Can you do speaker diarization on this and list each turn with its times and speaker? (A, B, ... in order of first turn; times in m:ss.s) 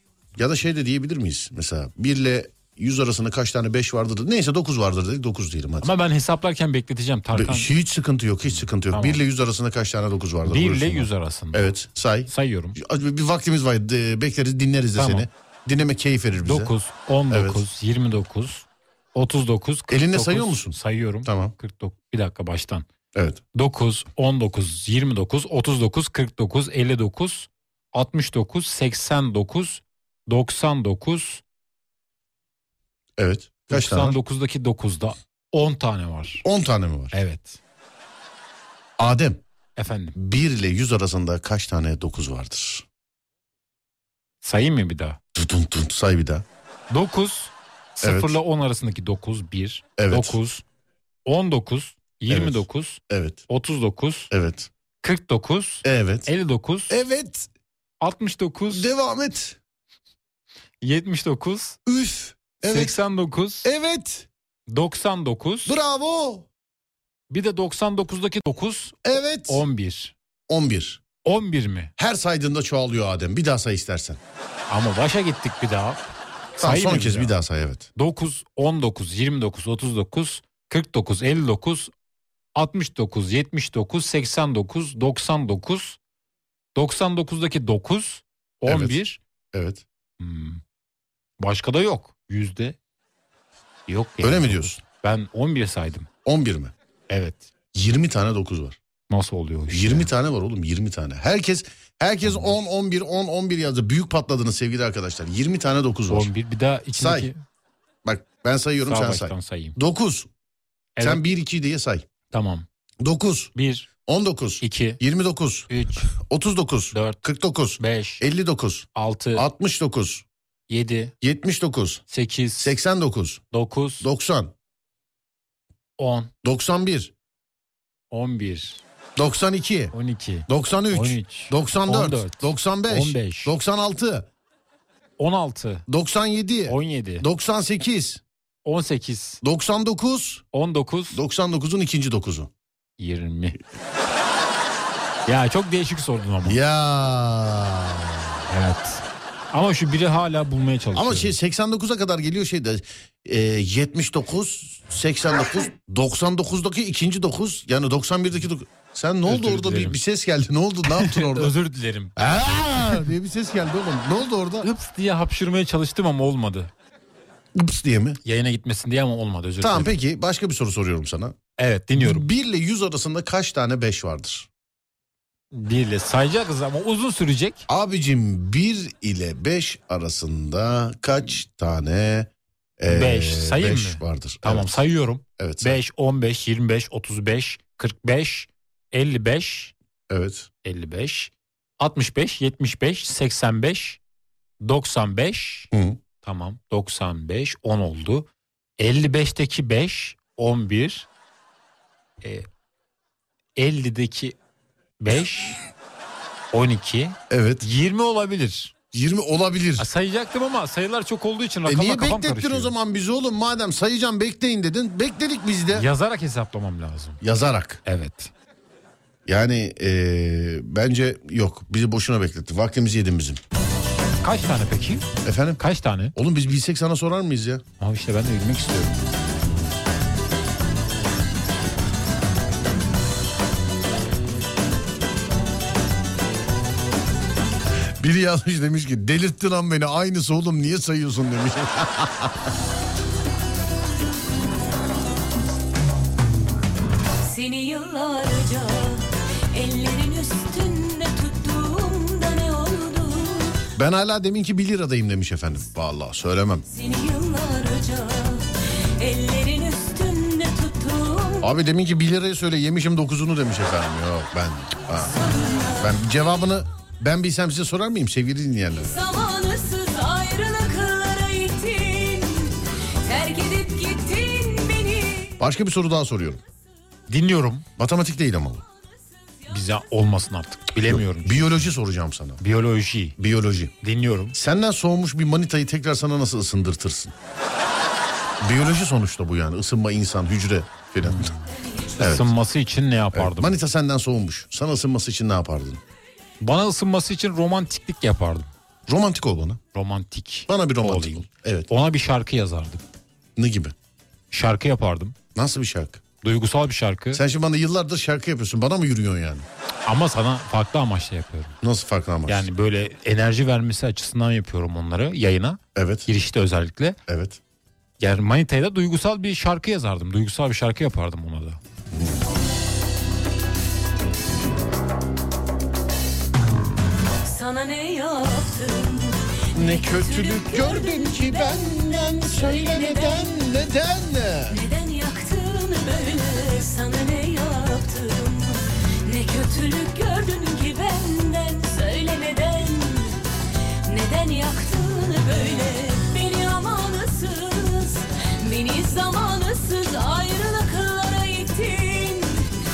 0:00.4-0:05.9 A
0:05.8-0:07.7 B
0:07.3-0:16.7 A
0:08.6-0:09.2 B
0:10.5-0:11.7 B
0:12.3-0:12.8 B
0:15.0-0:15.3 B
0:16.4-0:22.9 B
0:17.3-0:17.6 A
0:19.9-0:21.6 A
0:23.2-0:23.4 A
0:23.5-0:31.4 B
0:33.2-0:34.2 A
0:33.7-0:36.4 B
0:36.4-0:37.2 A
0:37.1-0:37.6 B
0:39.0-0:39.4 A
0:39.8-0:40.2 B
0:40.2-0:42.8 A
0:44.4-0:45.2 B
0:45.4-0:46.4 A
0:46.9-0:50.6 B
0:48.0-0:48.4 A
0:50.0-0:50.4 A
0:51.3-0:54.3 B
0:52.3-0:53.4 A
0:54.3-0:54.7 A
0:55.0-0:57.0 B
0:55.8-0:56.3 A
0:56.9-0:57.5 A
0:58.0-0:58.9 B
0:58.7-0:59.6 A
1:00.8-1:01.8 B
1:01.9-1:03.0 A
1:02.7-1:03.7 B
1:03.6-1:04.3 A
1:04.7-1:05.8 B
1:05.7-1:06.5 A
1:07.3-1:10.1 B
1:09.0-1:09.6 A
1:10.5-1:11.0 A
1:11.2-1:11.9 B
1:12.0-1:14.2 A
1:14.7-1:17.4 B
1:16.6-1:17.9 A
1:18.0-1:21.9 B
1:22.6-1:26.0 B
1:26.8-1:29.2 B
1:28.7-1:29.0 A
1:29.5-1:29.8 A
1:30.2-1:30.6 B
1:31.4-1:32.8 B
1:33.9-1:36.1 B
1:34.2-1:34.8 A
1:36.2-1:36.7 A
1:37.1-1:37.5 B
1:37.7-1:38.8 A
1:39.1-1:40.1 B
1:39.7-1:46.3 A
1:42.2-1:42.6 B
1:46.1-1:47.4 B
1:46.9-1:47.3 A
1:48.0-1:50.3 A
1:48.8-1:49.8 B
1:51.0-1:51.2 B
1:51.0-1:52.1 A
1:52.3-1:52.7 B
1:53.0-1:53.5 A
1:53.6-1:53.9 B
1:54.1-2:00.2 A
1:54.6-1:55.0 B
1:55.7-1:56.1 B
1:56.9-1:57.2 B
1:57.8-1:58.2 B
1:59.0-1:59.5 B
2:00.7-2:01.1 B
2:01.2-2:02.0 A
2:02.1-2:02.8 B
2:02.6-2:03.4 A
2:03.5-2:04.1 B
2:04.0-2:04.5 A
2:06.0-2:06.3 B
2:06.4-2:07.1 A
2:08.1-2:08.8 B
2:09.2-2:09.9 A
2:09.9-2:13.5 B
2:10.5-2:14.3 A
2:15.2-2:15.8 B
2:15.9-2:18.2 A
2:16.7-2:17.3 B
2:18.6-2:19.4 B
2:19.4-2:20.4 A
2:20.5-2:21.2 B
2:21.1-2:22.5 A
2:23.0-2:23.6 B
2:25.3-2:26.6 B
2:26.4-2:28.4 A
2:28.5-2:31.4 B
2:30.9-2:41.5 A
2:39.3-2:40.0 B
2:40.9-2:42.2 B
2:42.2-2:44.7 A
2:44.6-2:46.7 B
2:47.6-2:48.2 A
2:48.2-2:50.0 B
2:49.6-2:51.4 A
2:51.6-2:52.3 B
2:52.0-2:54.5 A
2:55.5-2:57.7 B
2:57.7-3:04.8 A
3:02.9-3:09.7 B
3:05.4-3:05.8 A
3:10.1-3:10.5 A
3:10.6-3:14.0 B
3:14.6-3:15.7 B
3:15.7-3:16.0 A
3:16.2-3:18.3 B
3:18.8-3:21.1 B
3:22.2-3:22.5 B
3:23.6-3:24.4 B
3:25.0-3:25.6 B
3:26.5-3:28.7 B
3:27.3-3:27.7 A
3:28.9-3:29.9 A
3:29.8-3:32.7 B
3:31.7-3:35.9 A
3:35.7-3:37.2 B
3:37.2-3:37.8 A
3:37.8-3:38.3 B
3:39.3-3:43.4 A
3:44.2-3:45.1 B
3:45.2-3:45.6 A
3:45.6-3:46.2 B
3:46.2-3:47.6 A
3:47.8-3:49.0 B
3:58.0-4:02.5 A
4:07.2-4:13.6 C
4:13.8-4:16.7 A
4:16.7-4:18.5 C
4:19.0-4:21.5 C
4:21.4-4:25.2 A
4:25.0-4:25.9 C
4:25.8-4:29.0 A
4:28.9-4:32.5 C
4:33.1-4:35.2 C
4:35.4-4:36.4 A
4:37.1-4:37.7 B
4:37.8-4:38.6 A
4:39.5-4:41.7 B
4:40.8-4:42.4 A
4:42.4-4:43.2 B
4:43.2-4:43.7 A
4:43.8-4:44.4 B
4:44.3-4:47.2 A
4:48.4-4:51.3 A
4:51.0-4:51.4 B
4:52.0-4:52.3 A
4:52.0-4:53.6 B
4:53.1-4:55.8 A
4:56.4-4:58.5 B
4:58.9-4:59.6 A
4:59.7-5:02.8 B
5:00.5-5:01.7 A
5:03.4-5:03.8 A
5:04.3-5:05.2 B
5:05.4-5:06.0 A
5:06.2-5:07.2 B
5:07.1-5:09.5 A
5:09.9-5:11.6 B
5:11.6-5:12.5 A
5:12.3-5:17.0 B
5:15.8-5:16.1 A
5:17.1-5:17.4 A
5:18.0-5:21.6 B
5:21.9-5:22.2 A
5:27.2-5:29.2 C
5:29.5-5:34.6 A
5:29.8-5:31.6 C
5:32.4-5:33.2 C
5:34.5-5:43.2 C
5:43.9-5:52.5 C